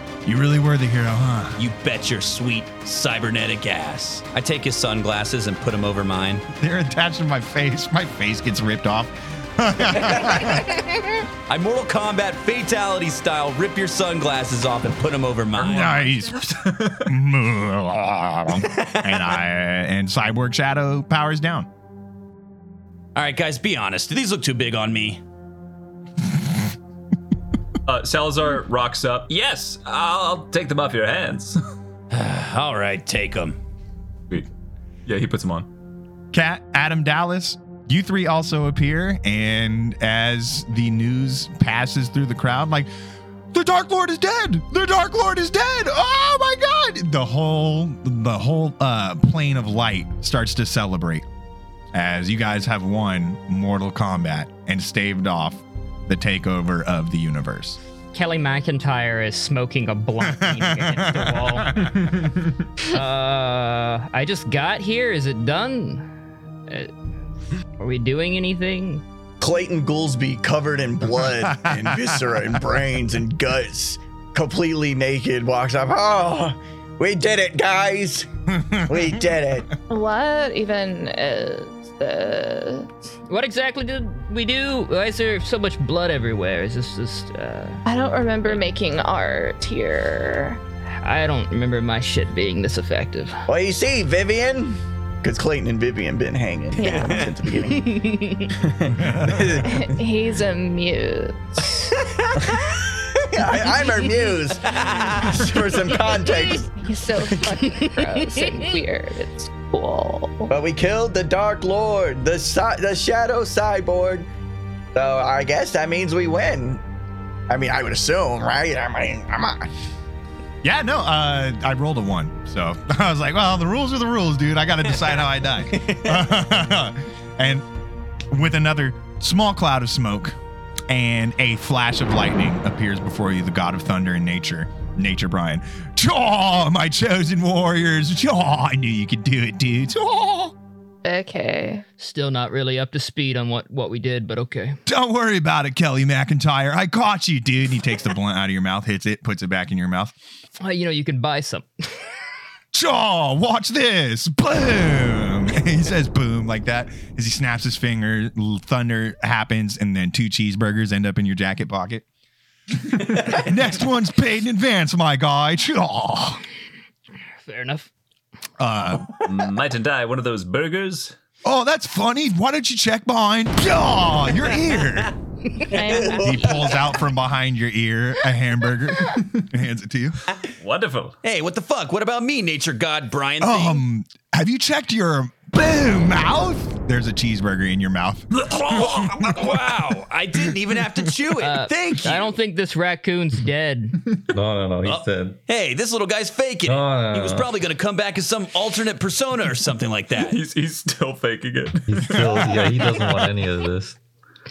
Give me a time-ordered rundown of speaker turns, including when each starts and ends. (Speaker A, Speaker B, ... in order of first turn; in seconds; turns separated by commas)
Speaker A: 0.2-1.6, Speaker B: 1.6-6.4, Speaker A: 6.6-10.8, Speaker B: 11.5-16.0, Speaker A: 15.6-16.5, Speaker C: 15.7-17.1, Speaker A: 17.1-21.7, Speaker B: 18.6-19.4, Speaker B: 23.2-25.2, Speaker C: 27.9-31.6, Speaker B: 32.1-33.6, Speaker C: 35.1-35.7, Speaker A: 36.3-42.9, Speaker A: 43.5-51.2, Speaker A: 51.9-57.8, Speaker D: 58.1-61.8, Speaker A: 60.2-61.9, Speaker C: 62.0-62.4, Speaker D: 62.8-66.1, Speaker D: 67.8-69.0, Speaker E: 69.4-79.8, Speaker A: 71.2-72.6, Speaker A: 78.5-79.2, Speaker F: 79.9-82.9, Speaker D: 83.3-87.8, Speaker F: 87.8-90.6, Speaker D: 91.0-93.5, Speaker E: 93.5-99.9, Speaker B: 96.8-97.3, Speaker F: 96.8-97.3, Speaker D: 98.0-98.5, Speaker A: 99.0-99.8, Speaker F: 99.7-102.0, Speaker B: 102.0-102.3, Speaker E: 102.4-106.7, Speaker F: 103.9-104.4, Speaker B: 104.6-105.4, Speaker F: 106.0-110.5, Speaker E: 110.5-114.3, Speaker E: 115.0-116.8, Speaker E: 117.5-119.7, Speaker A: 120.6-127.7, Speaker B: 125.7-126.2, Speaker A: 128.3-130.4, Speaker A: 130.9-140.6, Speaker F: 141.1-141.8, Speaker D: 142.0-144.8, Speaker A: 144.9-150.1, Speaker D: 150.6-151.8, Speaker A: 152.7-162.1, Speaker A: 162.8-166.4, Speaker D: 167.4-167.9, Speaker A: 168.6-169.3, Speaker C: 169.3-171.2, Speaker A: 171.4-175.1, Speaker F: 175.7-176.8, Speaker B: 175.8-176.2, Speaker A: 175.9-180.2, Speaker C: 180.6-181.2, Speaker B: 181.2-183.8, Speaker A: 183.4-189.3, Speaker B: 188.3-192.3, Speaker D: 191.4-194.0, Speaker G: 194.3-195.4, Speaker B: 194.8-200.4, Speaker G: 196.7-197.5, Speaker C: 200.2-203.2, Speaker G: 201.9-204.0, Speaker A: 202.1-202.5